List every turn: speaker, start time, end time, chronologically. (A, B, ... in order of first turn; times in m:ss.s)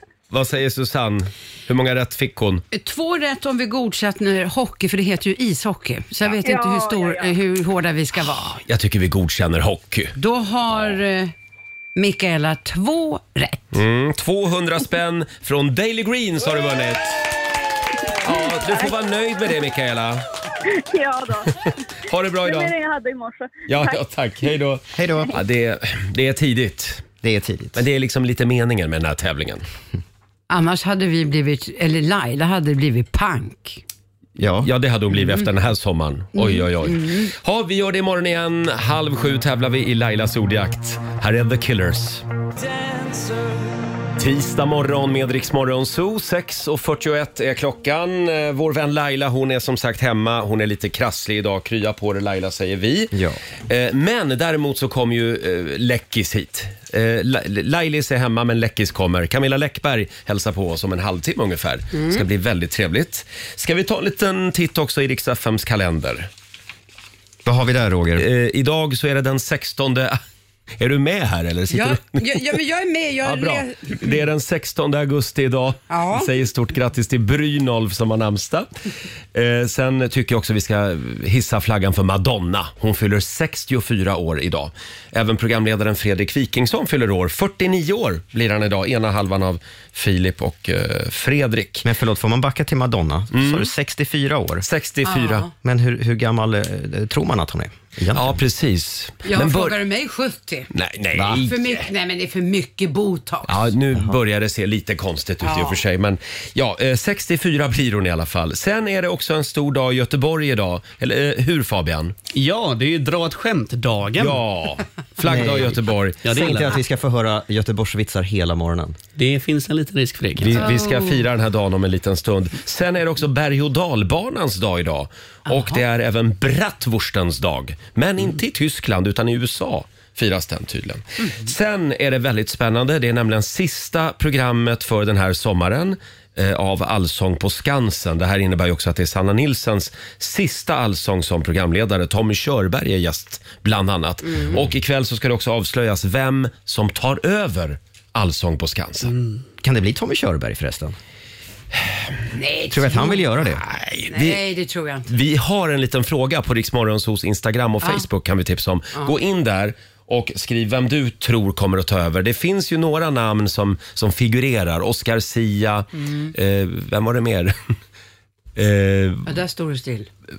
0:00.3-0:02.6 A
0:02.7-0:08.6 B
0:06.4-0:07.3 C
0:08.3-0:10.1 A
0:10.2-0:11.3 B
0:11.9-0:13.7 B
0:13.7-0:17.2 A
0:18.2-0:20.2 A
0:18.2-0:19.0 C
0:20.6-0:21.5 C
0:22.1-0:22.7 A
0:22.4-0:24.0 C
0:23.7-0:27.0 A
0:25.0-0:25.4 D
0:27.2-0:27.8 D
0:27.8-0:29.6 A
0:30.5-0:33.8 B
0:34.4-0:34.7 D
0:34.6-0:42.2 A
0:36.4-0:37.3 B
0:44.2-0:53.2 A
0:53.1-0:53.4 D
0:53.7-1:06.3 A
1:01.9-1:02.2 B
1:07.4-1:08.2 D
1:08.2-1:10.2 A
1:10.8-1:12.4 A
1:11.7-1:14.2 B
1:13.2-1:18.7 A
1:15.9-1:16.3 B
1:19.3-1:31.8 A
1:31.8-1:34.6 D
1:33.3-1:33.7 A
1:34.6-1:35.4 A
1:35.0-1:35.5 B
1:35.6-1:38.4 D
1:38.1-1:39.8 A
1:39.2-1:40.7 B
1:40.7-1:41.8 A
1:41.2-1:41.4 D
1:41.3-1:43.7 B
1:43.5-1:52.1 A
1:45.4-1:45.8 B
1:52.3-1:54.4 E
1:54.2-1:56.2 A
1:55.2-1:59.0 D
1:56.2-1:56.8 E
1:59.2-2:00.7 E
2:00.4-2:29.1 A
2:00.6-2:01.2 B
2:05.5-2:05.8 B
2:24.2-2:24.6 B
2:29.6-2:31.0 D
2:32.3-2:33.3 B
2:32.7-2:33.6 D
2:33.4-2:34.4 A
2:34.1-2:35.0 B
2:35.1-2:47.6 A
2:46.0-2:46.3 B
2:48.6-2:49.3 A
2:49.2-2:50.1 B